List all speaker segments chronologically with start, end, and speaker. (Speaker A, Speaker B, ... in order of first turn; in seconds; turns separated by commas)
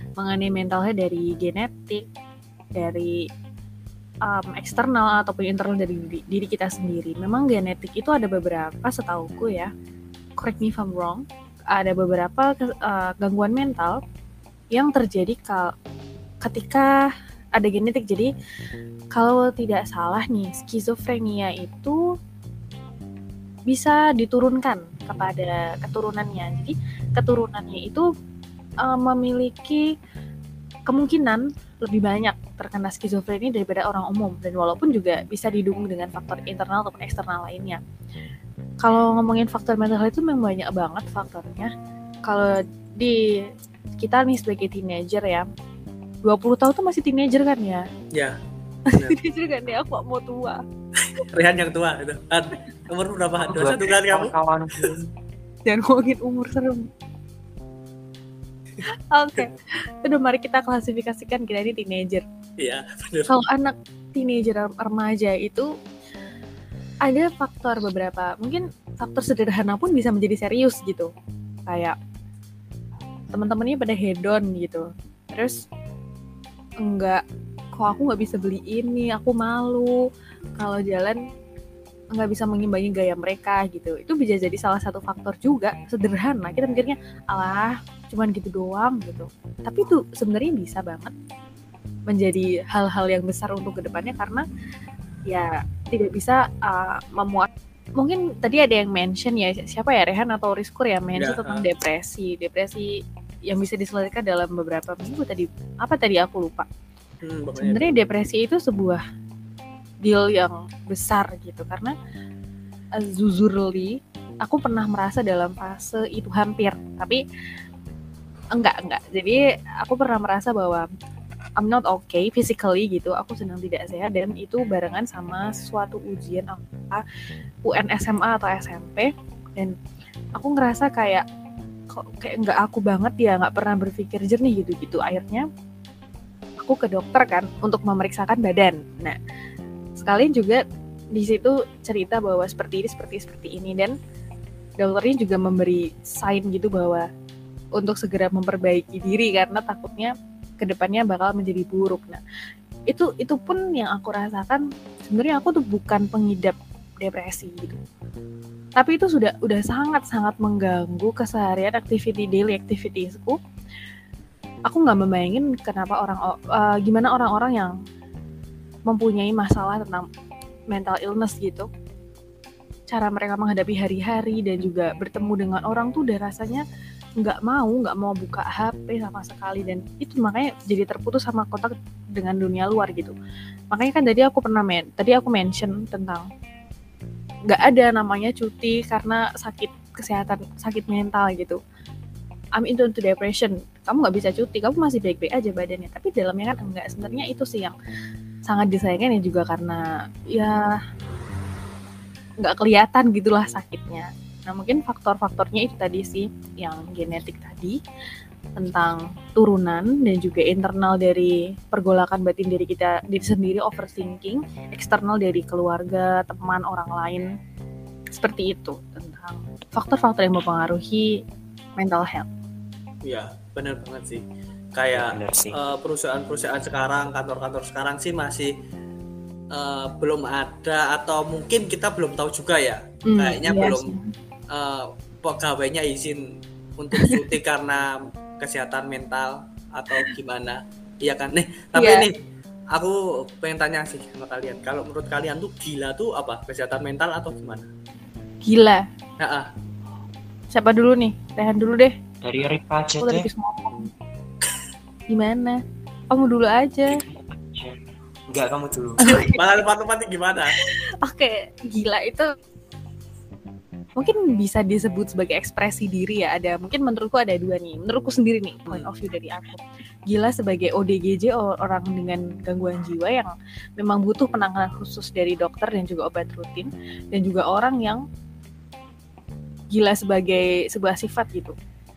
Speaker A: 0.2-2.0, Speaker A: 2.7-3.3, Speaker A: 4.2-9.7, Speaker A: 10.4-14.0, Speaker A: 14.7-15.7, Speaker A: 16.4-18.3, Speaker A: 19.1-22.0, Speaker A: 23.7-28.1, Speaker A: 28.8-29.9, Speaker A: 30.9-37.8, Speaker A: 38.8-41.7, Speaker A: 42.2-43.4, Speaker A: 44.0-45.5, Speaker A: 46.2-47.9, Speaker A: 48.9-50.6, Speaker B: 48.9-49.2, Speaker B: 51.0-54.3, Speaker C: 53.4-55.1, Speaker A: 55.7-56.9, Speaker A: 58.9-62.2, Speaker B: 62.6-63.3, Speaker A: 63.3-65.7, Speaker A: 67.0-71.1, Speaker A: 71.7-72.0, Speaker A: 73.3-75.5, Speaker A: 76.8-77.2, Speaker A: 77.7-80.0, Speaker A: 80.6-81.2, Speaker A: 82.1-91.1, Speaker A: 92.1-94.4, Speaker A: 95.3-106.7, Speaker B: 101.2-101.6, Speaker B: 107.2-107.9, Speaker A: 107.6-109.0, Speaker A: 110.0-111.9, Speaker A: 113.0-117.2, Speaker A: 118.5-120.9, Speaker A: 121.6-127.0, Speaker A: 127.6-129.7, Speaker A: 130.4-131.2, Speaker A: 131.9-135.4, Speaker A: 136.6-139.2, Speaker A: 140.0-140.6, Speaker A: 141.1-143.9, Speaker A: 144.8-147.1, Speaker A: 147.8-152.2, Speaker A: 152.9-157.8, Speaker A: 158.8-163.4, Speaker A: 164.7-167.7, Speaker A: 168.9-170.1, Speaker A: 170.7-171.7, Speaker A: 172.9-176.6, Speaker A: 177.2-183.1, Speaker A: 183.7-186.2, Speaker A: 187.5-191.6, Speaker A: 192.6-197.7, Speaker A: 198.4-200.7, Speaker A: 202.4-207.8, Speaker A: 208.6-217.3, Speaker A: 218.1-221.1, Speaker A: 221.8-222.3, Speaker B: 223.0-224.2, Speaker B: 224.8-228.5, Speaker C: 224.9-225.6, Speaker B: 229.5-233.9, Speaker A: 233.1-234.1, Speaker B: 234.5-236.2, Speaker B: 236.8-242.1, Speaker A: 237.0-237.2, Speaker A: 241.8-242.1, Speaker B: 242.7-247.7, Speaker A: 248.4-248.8, Speaker B: 249.2-249.5, Speaker A: 250.5-251.9, Speaker C: 252.2-253.3, Speaker A: 253.0-253.9, Speaker A: 255.1-255.6, Speaker A: 256.1-257.0, Speaker C: 256.9-257.7, Speaker C: 258.3-259.2, Speaker A: 259.0-259.5, Speaker B: 259.3-260.6, Speaker A: 260.5-262.3, Speaker A: 264.0-278.0, Speaker A: 279.7-281.5